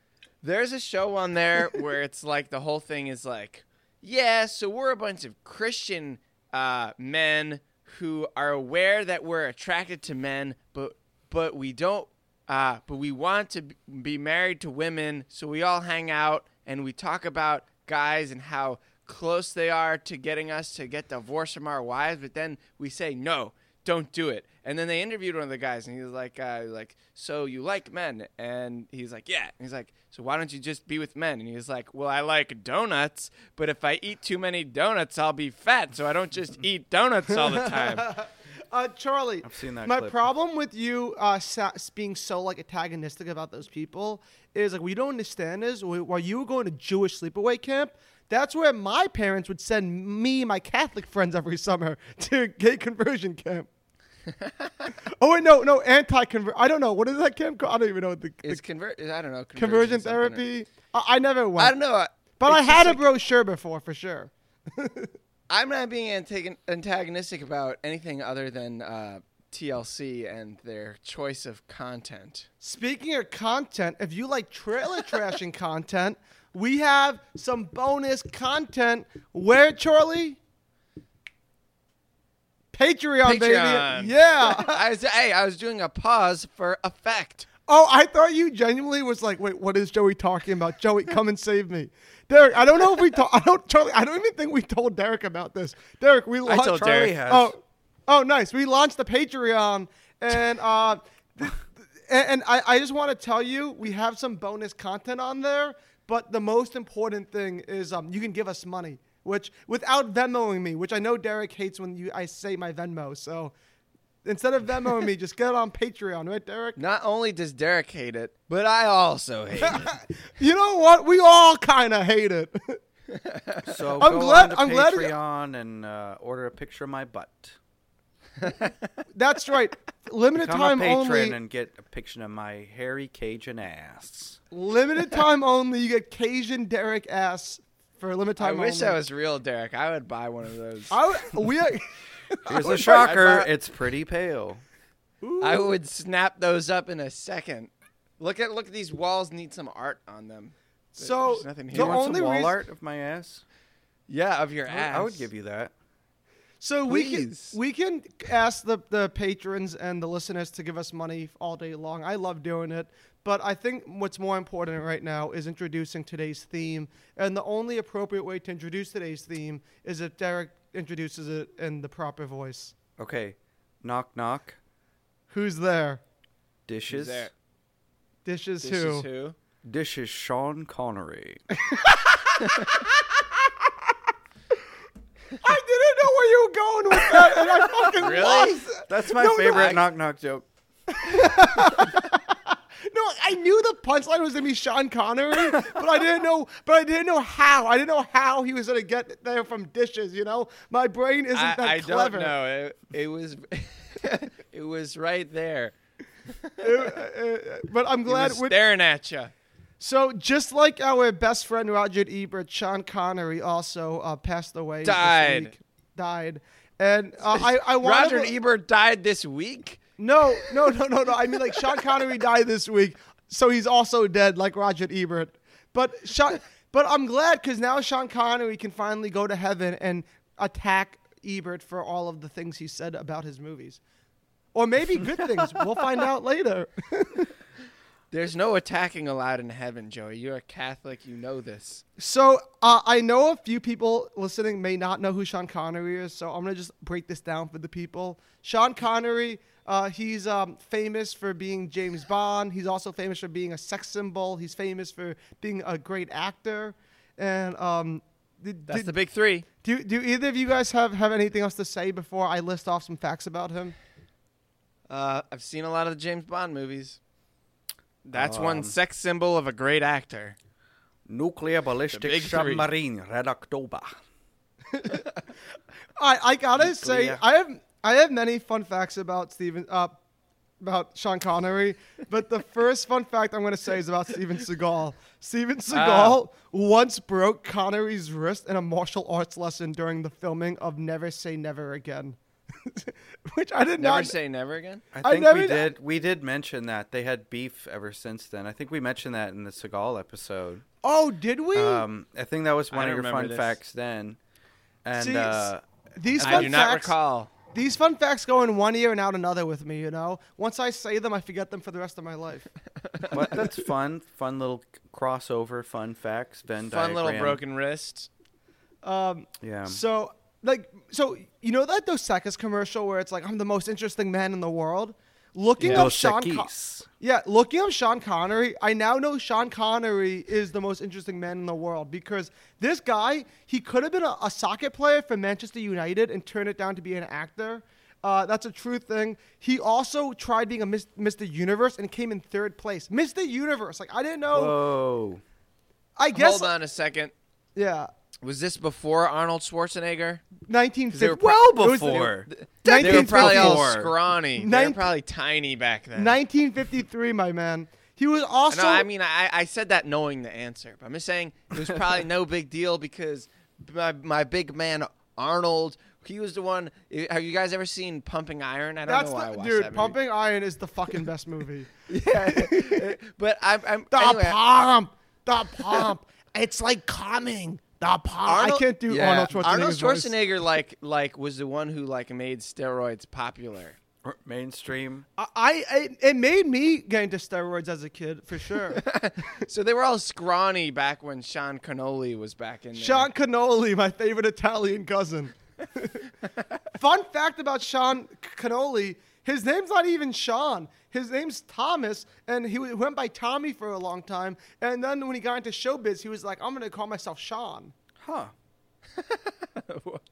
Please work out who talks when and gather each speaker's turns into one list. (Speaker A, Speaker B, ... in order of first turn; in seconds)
Speaker A: 0.4-38.1, 58.4-60.5, 61.6-63.1, 65.5-72.5, 83.2-87.5, 96.5-97.2, 116.8-119.9, 123.2-123.8, 128.4-128.8, 138.4-141.0, 142.7-143.5, 145.4-152.1, 154.1-155.3, 156.9-157.6, 176.9-177.3, 178.6-179.4, 188.0-188.6, 189.5-189.8, 201.3-205.7, 206.3-206.7, 208.1-209.3, 214.8-215.6, 217.3-219.8, 238.1-241.8, 258.7-259.5, 264.9-267.0, 268.1-270.4, 271.9-272.7, 285.7-286.2, 293.8-294.9, 302.7-303.6, 306.2-307.3, 312.9-313.4, 316.7-318.1, 325.6-325.9, 346.1-347.1, 348.2-350.3, 350.9-356.2, 358.5-370.0, 371.9-374.7, 375.6-375.8, 378.2-383.8, 388.7-393.1, 409.0-410.0
Speaker B: 37.4-53.7, 55.2-58.6, 59.5-61.8, 62.4-65.1, 72.6-80.4, 82.7-84.8, 87.7-113.5, 114.2-116.8, 119.6-122.8, 124.0-125.2, 129.1-131.4, 134.5-139.0, 140.9-141.9, 142.5-143.1, 145.2-145.7, 150.9-152.6, 156.6-172.8, 175.3-176.0, 178.2-179.1, 185.4-189.8, 191.0-202.4, 206.6-208.6, 209.8-218.3, 220.0-233.8, 234.5-237.3, 242.0-259.0, 259.6-263.8, 274.7-275.0, 276.0-279.9, 280.6-294.1, 295.0-295.8, 300.8-301.8, 304.9-307.0, 307.5-312.5, 318.8-344.6, 346.0-346.5, 347.6-347.9, 350.4-354.9, 355.9-358.9, 368.9-373.0, 373.9-380.1, 385.2-388.9, 392.8-396.1, 396.7-407.7
Speaker C: 39.4-40.2, 96.5-97.6, 123.6-127.6, 130.3-134.4, 142.5-144.6, 151.7-153.4, 154.7-155.7, 173.0-174.6, 176.7-177.3, 179.6-181.4, 188.9-190.5, 268.1-268.8, 271.1-273.9, 276.6-277.2, 294.9-300.6, 301.5-304.2, 304.8-305.6, 306.2-306.7, 313.1-317.4, 319.4-319.8, 325.6-326.9, 344.3-345.2, 351.0-353.9, 384.0-385.1, 408.0-408.3